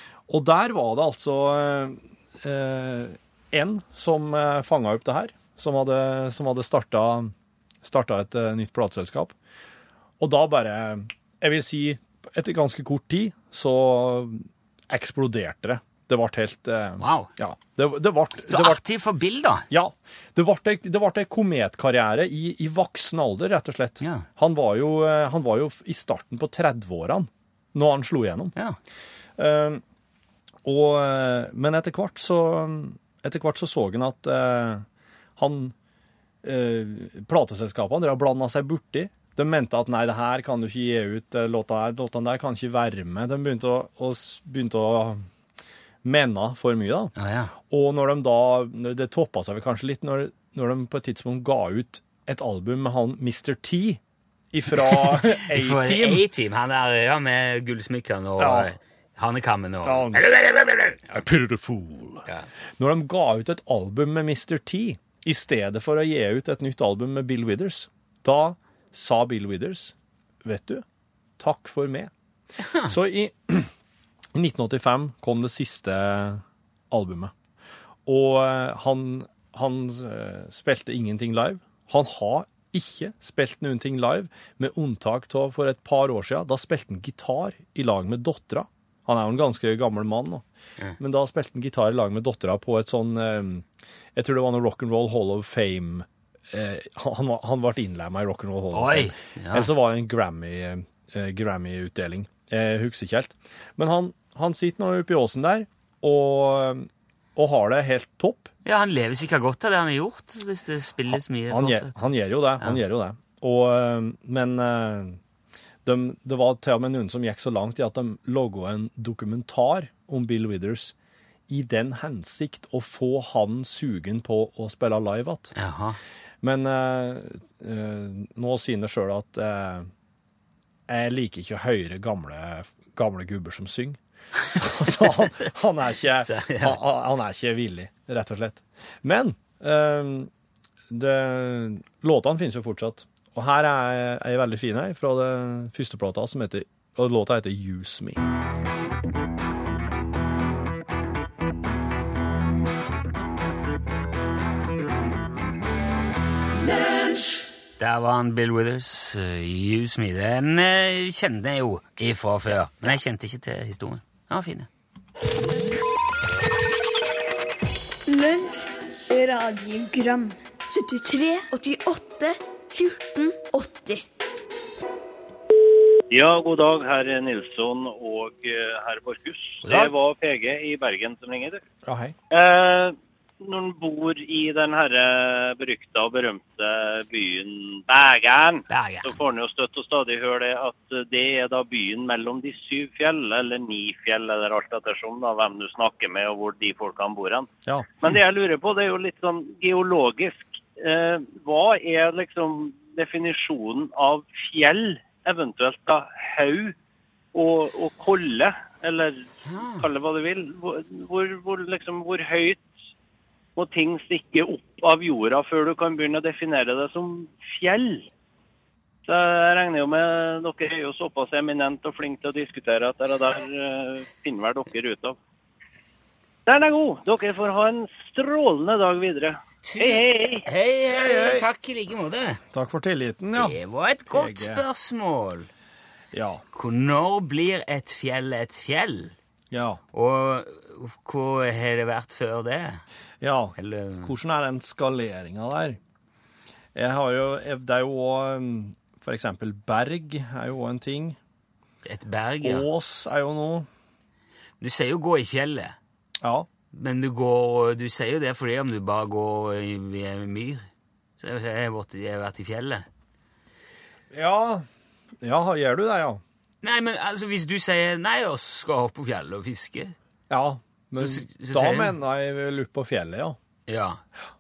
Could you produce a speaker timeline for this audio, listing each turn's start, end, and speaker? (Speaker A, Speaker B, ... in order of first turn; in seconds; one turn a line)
Speaker A: 0.3-9.3
Speaker A: 10.2-18.8
Speaker B: 17.0-17.3
Speaker B: 18.5-19.7
Speaker A: 19.7-28.5
Speaker A: 29.4-29.8
Speaker A: 30.6-34.8
Speaker A: 35.4-35.7
Speaker A: 36.4-45.3
Speaker A: 46.0-47.1
Speaker B: 47.1-47.5
Speaker A: 47.7-54.0
Speaker A: 54.5-56.2
Speaker B: 54.8-61.1
Speaker A: 58.4-58.7
Speaker A: 59.8-60.3
Speaker A: 61.1-62.2
Speaker A: 62.8-70.8
Speaker A: 71.4-72.1
Speaker B: 72.6-72.9
Speaker A: 72.8-73.7
Speaker A: 74.3-77.3
Speaker A: 78.0-90.4
Speaker A: 91.0-108.5
Speaker B: 98.7-99.7
Speaker B: 108.6-112.0
Speaker A: 111.1-115.2
Speaker A: 115.8-120.9
Speaker A: 121.5-125.5
Speaker B: 125.5-126.0
Speaker A: 126.4-129.9
Speaker A: 130.9-140.3
Speaker B: 136.2-136.8
Speaker A: 140.9-148.2
Speaker B: 157.8-164.7
Speaker C: 168.1-174.0
Speaker D: 176.1-181.6
Speaker B: 179.6-179.9
Speaker A: 181.8-182.1
Speaker D: 182.3-197.5
Speaker B: 188.7-189.1
Speaker D: 198.0-206.7
Speaker D: 207.3-209.2
Speaker B: 209.4-209.9
Speaker D: 209.8-212.7
Speaker D: 213.6-218.1
Speaker D: 219.1-225.2
Speaker D: 226.4-230.4
Speaker B: 229.6-232.4
Speaker A: 230.9-231.4
Speaker A: 232.5-233.6
Speaker B: 233.3-235.5
Speaker A: 234.1-234.6
Speaker A: 236.1-236.4
Speaker B: 236.5-239.1
Speaker A: 239.5-239.8
Speaker B: 239.9-242.8
Speaker A: 243.2-245.8
Speaker B: 243.6-244.1
Speaker A: 246.7-251.2
Speaker B: 251.8-252.7
Speaker A: 252.4-253.7
Speaker B: 254.6-255.8
Speaker A: 256.2-256.5
Speaker B: 256.7-260.7
Speaker B: 261.2-262.9
Speaker A: 264.1-264.7
Speaker A: 265.2-266.2
Speaker B: 266.6-269.9
Speaker A: 270.3-273.4
Speaker B: 270.9-271.9
Speaker B: 273.7-274.0